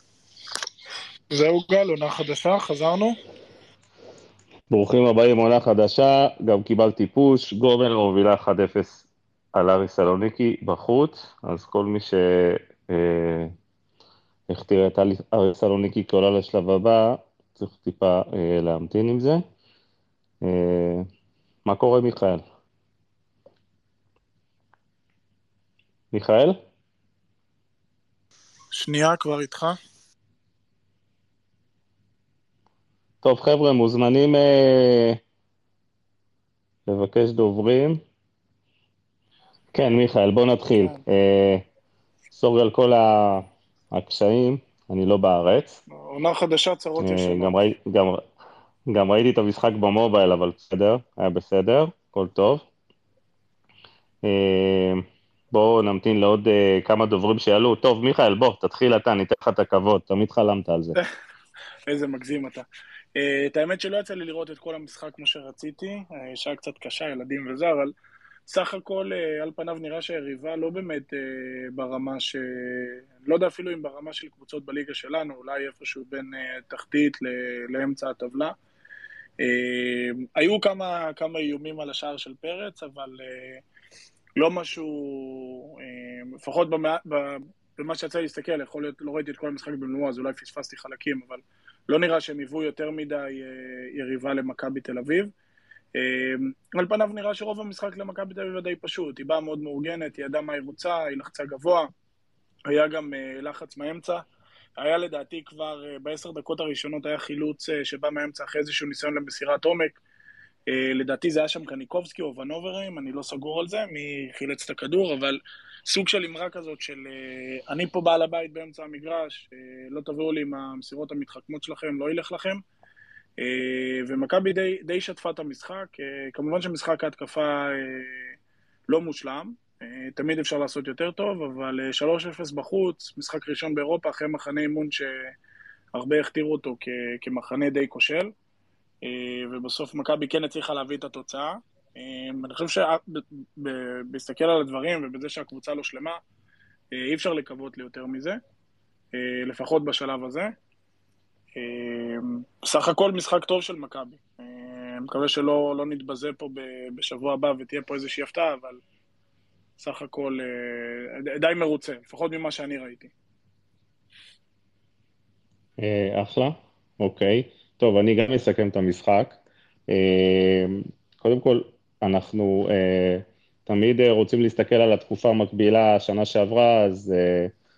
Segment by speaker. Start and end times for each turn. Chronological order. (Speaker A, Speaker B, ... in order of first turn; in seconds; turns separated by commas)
Speaker A: 1.3-3.2, Speaker B: 4.7-9.0, Speaker B: 9.6-13.5, Speaker B: 14.5-19.4, Speaker B: 20.4-21.1, Speaker B: 21.6-22.4, Speaker B: 26.1-26.6, Speaker A: 28.7-29.8, Speaker B: 33.2-35.2, Speaker B: 36.9-38.0, Speaker B: 39.7-41.6, Speaker B: 42.3-45.8, Speaker A: 45.9-47.6, Speaker B: 47.0-48.2, Speaker B: 48.9-52.6, Speaker B: 54.2-61.0, Speaker A: 61.9-67.9, Speaker A: 68.5-78.5, Speaker A: 79.4-83.6, Speaker A: 84.4-95.3, Speaker A: 95.9-101.9, Speaker A: 102.7-104.2, Speaker A: 104.8-110.0, Speaker A: 110.7-122.6, Speaker A: 123.4-128.3, Speaker A: 128.9-135.3, Speaker A: 135.9-138.3, Speaker A: 139.0-146.2, Speaker A: 146.9-148.4, Speaker A: 149.1-150.5, Speaker A: 151.6-158.8, Speaker A: 159.8-163.1, Speaker B: 165.8-169.4, Speaker B: 169.9-177.5